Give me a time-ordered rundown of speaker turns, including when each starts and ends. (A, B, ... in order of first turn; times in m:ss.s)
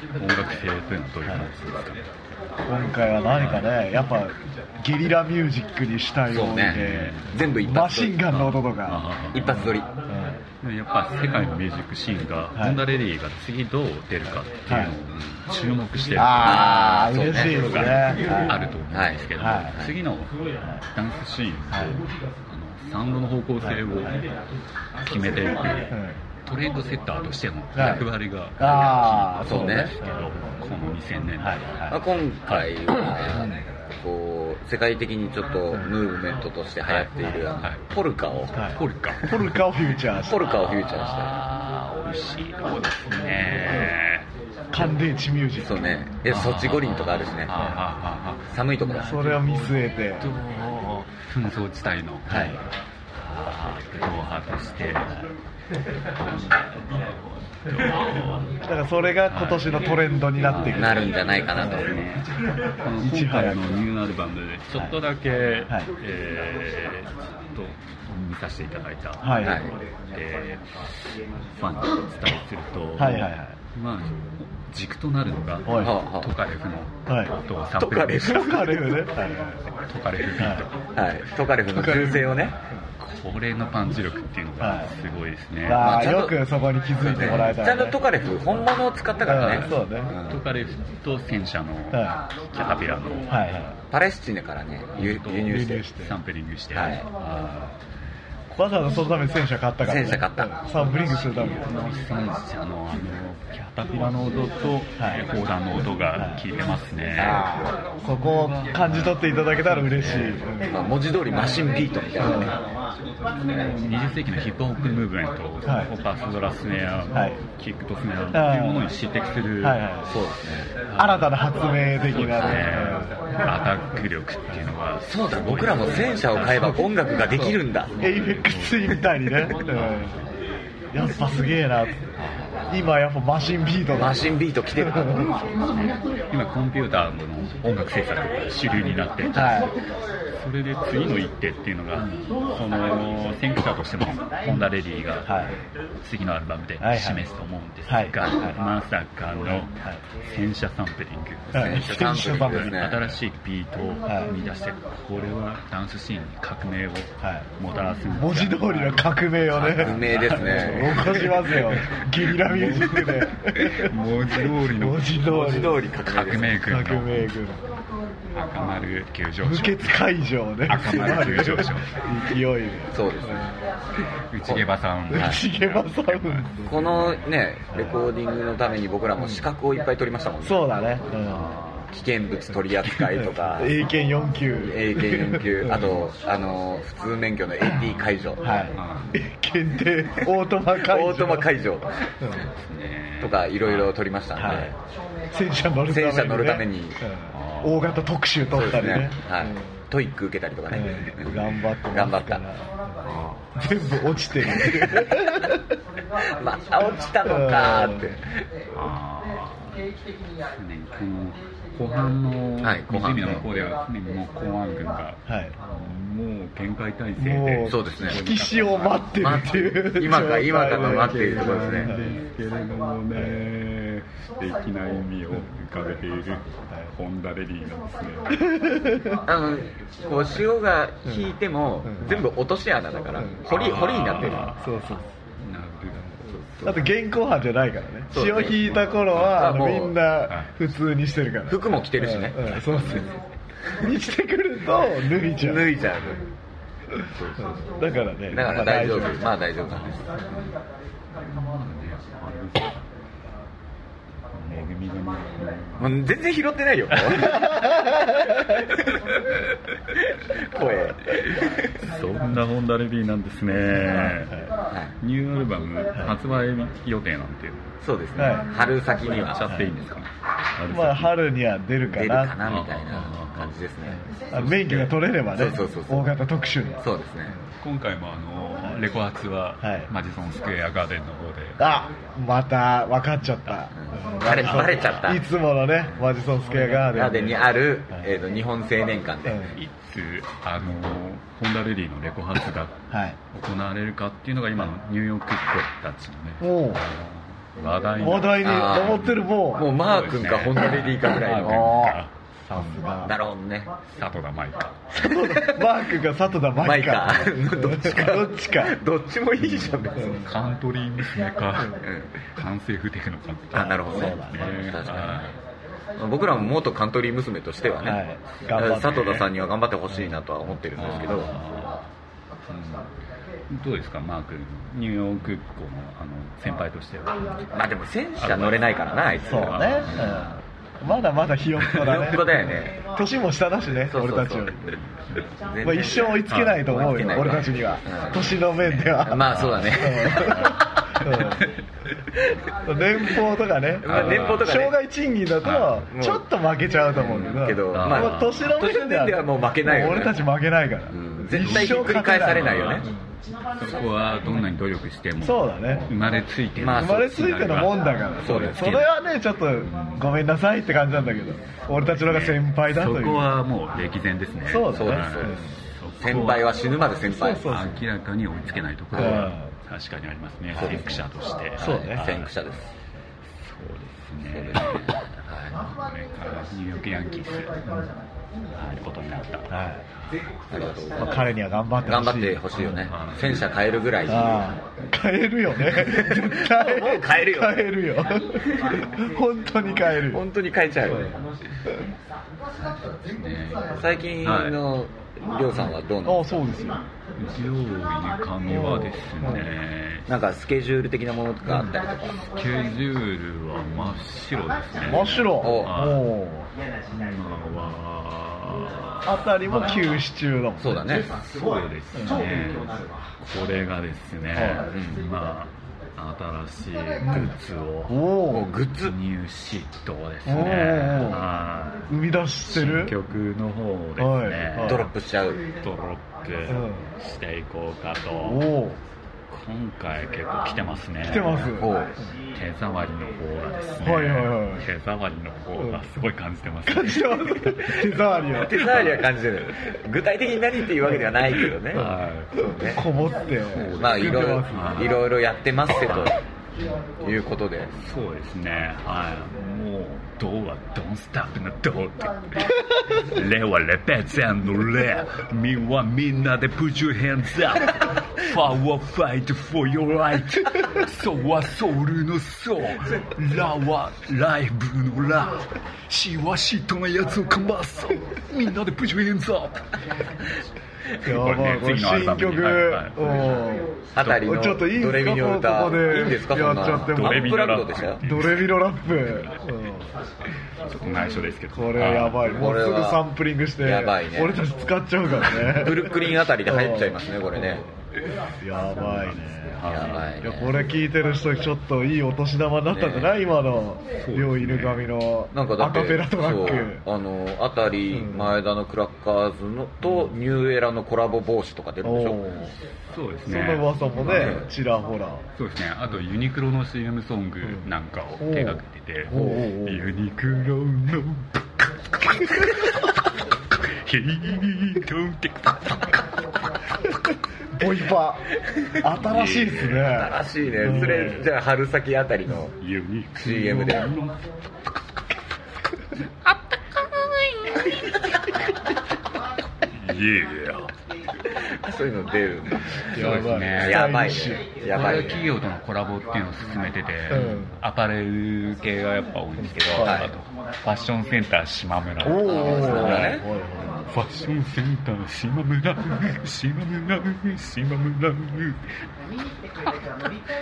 0:00.2-0:02.0 A
0:02.7-0:09.1 B
0:03.3-0:03.7 A
0:06.3-0:08.4 C
0:06.6-0:07.4 A
0:08.3-0:09.7 A
0:09.3-0:09.9 C
0:10.1-0:10.4 B
0:10.6-0:20.3 A
0:12.6-0:12.8 B
0:14.7-0:14.9 B
0:16.2-0:18.7 B
0:16.3-0:17.9 C
0:18.9-0:19.9 C
0:19.4-0:19.8 B
0:20.9-0:24.3 A
0:21.7-0:22.0 B
0:23.6-0:24.1 B
0:25.0-0:32.7 A
0:25.9-0:26.2 B
0:27.8-0:30.5 B
0:29.4-0:29.9 C
0:31.4-0:31.9 B
0:31.9-0:38.6 C
0:33.4-0:33.6 B
0:36.9-0:37.8 A
0:37.2-0:37.5 B
0:38.6-0:40.5 B
0:38.7-0:39.6 A
0:40.1-0:41.4 C
0:40.4-0:44.3 A
0:44.7-0:45.9 B
0:45.6-0:47.5 C
0:46.3-0:48.5 A
0:48.5-0:49.2 C
0:49.0-0:50.3 B
0:50.2-0:52.6 A
0:52.3-0:52.6 C
0:53.2-0:55.2 A
0:56.2-0:58.7 A
0:58.6-1:01.8 B
0:59.2-1:02.3 A
1:00.7-1:02.0 C
1:02.8-1:10.9 A
1:03.0-1:03.7 B
1:09.2-1:09.6 B
1:11.5-1:18.4 A
1:13.0-1:13.6 B
1:15.7-1:16.0 B
1:15.8-1:16.3 C
1:17.1-1:17.3 B
1:17.8-1:19.1 C
1:18.2-1:19.6 B
1:19.6-1:20.8 A
1:20.4-1:20.7 B
1:20.9-1:22.6 C
1:21.7-1:22.6 B
1:23.0-1:26.0 A
1:24.6-1:24.9 B
1:25.6-1:28.0 B
1:25.8-1:26.4 C
1:27.0-1:30.4 C
1:27.2-1:27.5 A
1:29.2-1:30.1 B
1:29.4-1:29.7 A
1:30.2-1:33.5 A
1:31.9-1:32.2 B
1:33.3-1:33.7 B
1:33.9-1:35.9 C
1:34.9-1:37.8 A
1:35.5-1:36.2 B
1:36.7-1:37.1 C
1:38.5-1:41.7 B
1:39.8-1:40.6 C
1:41.2-1:47.4 A
1:45.0-1:45.2 B
1:46.2-1:46.4 B
1:47.2-1:47.7 C
1:47.2-1:50.8 B
1:48.0-1:50.4 A
1:50.7-1:52.6 C
1:52.2-1:52.6 B
1:53.2-1:59.8 A
1:55.6-1:55.9 B
1:57.1-1:57.4 B
1:58.3-1:58.9 B
1:59.6-2:00.1 B
2:00.1-2:00.7 C
2:00.9-2:01.4 A
2:01.0-2:03.2 B
2:02.0-2:06.8 A
2:02.4-2:02.7 C
2:05.1-2:08.0 C
2:07.3-2:10.2 B
2:07.9-2:10.2 A
2:10.9-2:12.1 B
2:12.7-2:15.3 B
2:13.9-2:15.6 C
2:15.6-2:19.7 A
2:19.3-2:19.7 B
2:20.3-2:25.4 A
2:25.2-2:25.6 B
2:26.0-2:45.5 A
2:26.8-2:27.2 B
2:27.9-2:28.2 B
2:31.5-2:32.8 B
2:31.5-2:33.1 C
2:34.1-2:34.3 B
2:37.2-2:37.5 B
2:38.2-2:45.9 B
2:39.6-2:41.4 C
2:45.2-2:46.6 C
2:46.0-2:47.4 A
2:46.5-2:47.7 B
2:48.3-2:50.1 A
2:49.4-2:53.5 B
2:50.7-2:52.0 A
2:52.9-2:53.5 C
2:54.3-2:57.3 A
2:54.4-2:55.4 C
2:55.1-2:56.9 B
2:56.7-3:00.7 C
2:57.7-2:58.0 B
2:59.2-2:59.4 B
3:00.4-3:01.5 B
3:01.2-3:01.9 A
3:01.9-3:03.8 C
3:03.2-3:06.0 B
3:04.6-3:08.6 C
3:08.4-3:11.5 B
3:08.7-3:09.2 A
3:10.7-3:12.3 C
3:12.4-3:14.7 A
3:13.2-3:14.7 C
3:14.4-3:14.7 B
3:15.3-3:19.6 B
3:15.9-3:17.0 C
3:17.3-3:18.1 A
3:18.5-3:22.4 C
3:20.7-3:23.0 B
3:23.0-3:23.5 A
3:23.6-3:25.7 B
3:24.6-3:25.3 C
3:26.2-3:28.5 C
3:27.2-3:28.2 B
3:28.7-3:29.9 A
3:30.4-3:39.5 A
3:32.6-3:33.4 C
3:35.3-3:35.6 B
3:37.2-3:42.2 B
3:37.7-3:38.2 C
3:39.2-3:42.0 C
3:40.5-3:48.5 A
3:48.3-3:49.2 B
3:49.3-3:54.5 C
3:51.8-3:52.2 B
3:53.5-3:56.9 A
3:54.2-3:55.1 B
3:56.6-4:03.1 B
3:58.1-4:00.0 C
3:59.1-3:59.4 A
4:01.5-4:03.1 C
4:02.8-4:03.1 A
4:03.8-4:05.7 B
4:05.3-4:06.3 C
4:07.2-4:07.7 A
4:07.7-4:09.2 B
4:08.3-4:10.1 C
4:09.8-4:10.6 A
4:11.2-4:12.8 A
4:14.3-4:16.0 A
4:15.8-4:18.9 C
4:16.9-4:17.4 A
4:17.3-4:18.4 B
4:19.9-4:21.8 C
4:21.8-4:24.3 A
4:23.7-4:24.5 B
4:25.0-4:27.7 A
4:27.8-4:29.5 C
4:28.2-4:28.5 B
4:29.1-4:31.2 A
4:30.7-4:32.4 B
4:31.9-4:34.0 C
4:32.4-4:33.6 A
4:33.9-4:37.4 B
4:34.3-4:34.9 A
4:35.3-4:36.1 C
4:36.8-4:37.4 C
4:37.6-4:41.7 A
4:39.6-4:39.9 B
4:41.6-4:48.1 B
4:43.8-4:45.2 C
4:44.3-4:45.1 A
4:46.4-4:46.8 A
4:46.9-4:49.4 C
4:49.2-4:49.6 B
4:49.5-5:02.8 A
4:52.9-4:53.2 B
4:56.4-4:56.8 B
4:58.0-4:59.7 B
4:58.4-5:01.9 C
5:01.4-5:03.2 B
5:03.0-5:03.7 C
5:03.9-5:04.8 A
5:04.9-5:08.8 B
5:04.9-5:05.8 C
5:06.6-5:10.3 C
5:09.5-5:15.3 A
5:10.0-5:10.3 B
5:11.8-5:12.1 C
5:13.5-5:15.3 C
5:13.6-5:14.6 B
5:16.0-5:21.3 C
5:17.8-5:19.3 B
5:18.5-5:19.2 A
5:20.8-5:21.9 A
5:22.5-5:22.9 A
5:23.5-5:27.6 A
5:27.5-5:30.3 C
5:28.2-5:30.3 A
5:29.2-5:32.3 B
5:31.7-5:32.8 C
5:32.9-5:34.7 B
5:33.9-5:34.8 C
5:35.3-5:38.3 C
5:35.6-5:41.4 B
5:36.3-5:36.7 A
5:38.6-5:41.4 A
5:39.0-5:40.6 C
5:42.6-5:53.1 B
5:43.8-5:44.8 C
5:43.8-5:44.5 A
5:45.4-5:45.8 A
5:45.9-5:46.3 C
5:46.9-5:50.3 C
5:47.7-5:48.6 A
5:50.9-5:52.9 C
5:51.4-5:52.9 A
5:53.6-5:58.9 A
5:55.2-5:55.9 B
5:56.6-5:57.1 C
5:56.8-6:03.3 B
5:58.2-5:58.8 C
5:59.6-6:00.1 A
6:01.8-6:06.5 A
6:04.4-6:05.6 B
6:04.7-6:05.4 C
6:06.0-6:07.6 C
6:07.1-6:07.8 B
6:07.5-6:12.3 A
6:08.9-6:09.5 B
6:10.6-6:11.0 C
6:11.6-6:12.1 B
6:11.6-6:12.7 C
6:13.3-6:17.7 A
6:14.3-6:15.6 C
6:17.7-6:17.9 B
6:18.5-6:19.5 A
6:19.5-6:19.8 B
6:20.5-6:21.2 C
6:21.0-6:22.8 B
6:21.8-6:24.4 C
6:22.8-6:23.5 A
6:24.1-6:30.2 B
6:25.6-6:27.7 C
6:30.0-6:31.2 C
6:32.6-6:34.6 A
6:33.7-6:36.4 C
6:36.0-6:36.8 B
6:37.2-6:40.1 A
6:38.5-6:39.5 B
6:40.1-6:42.3 C
6:41.5-6:41.7 B
6:42.3-6:46.1 A
6:44.8-6:46.5 B
6:45.4-6:45.8 C
6:46.9-6:49.9 A
6:49.0-6:50.8 B
6:50.6-6:51.1 C
6:51.3-6:58.0 A
6:54.4-6:54.6 B
6:54.6-6:55.0 C
6:57.9-6:58.5 B
6:58.3-6:59.0 C
6:58.8-7:01.9 A
7:00.2-7:01.3 B
7:01.9-7:03.0 B
7:02.4-7:04.9 A
7:04.0-7:04.9 B
7:04.6-7:05.4 C
7:05.6-7:08.5 A
7:06.5-7:06.9 B
7:08.2-7:08.8 B
7:09.3-7:11.6 A
7:11.0-7:11.8 B
7:11.6-7:11.9 C
7:12.3-7:17.9 A
7:13.8-7:14.7 B
7:15.6-7:15.9 B
7:16.7-7:18.6 B
7:18.3-7:22.8 C
7:18.5-7:19.1 A
7:21.4-7:22.5 A
7:21.7-7:24.9 B
7:23.5-7:25.0 A
7:23.8-7:26.2 C
7:25.9-7:26.2 A
7:27.0-7:27.7 C
7:27.7-7:49.7 A
7:51.0-7:53.0 A
7:51.0-7:57.4 B
7:53.9-7:58.0 C
7:54.0-7:54.3 A
7:56.8-7:59.5 A
7:58.0-7:59.9 B
8:00.6-8:02.3 A
8:01.5-8:07.0 B
8:02.3-8:03.0 C
8:03.6-8:04.4 C
8:05.3-8:07.7 C
8:08.4-8:16.8 B
8:08.8-8:10.1 A
8:09.7-8:10.6 C
8:12.7-8:13.2 C
8:14.0-8:14.9 A
8:15.3-8:22.2 C
8:17.9-8:18.4 B
8:21.8-8:22.5 B
8:22.9-8:24.4 A
8:23.3-8:25.2 B
8:24.0-8:24.5 C
8:25.4-8:31.4 A
8:28.2-8:29.9 B
8:32.0-8:32.9 A
8:33.6-8:36.1 A
8:37.5-8:38.3 B
8:38.8-8:41.2 B
8:38.9-8:41.2 A
8:39.8-8:42.6 C
8:42.6-8:45.0 A
8:43.2-8:43.9 C
8:45.9-8:47.9 A
8:49.6-8:50.7 A
8:51.3-8:55.3 C
8:52.9-8:54.4 B
8:52.9-8:54.0 A
8:54.6-9:03.2 A
8:57.1-8:57.6 B
8:59.7-9:00.1 B
8:59.8-9:00.2 C
9:02.0-9:03.9 B
9:02.2-9:03.2 C
9:03.9-9:08.7 A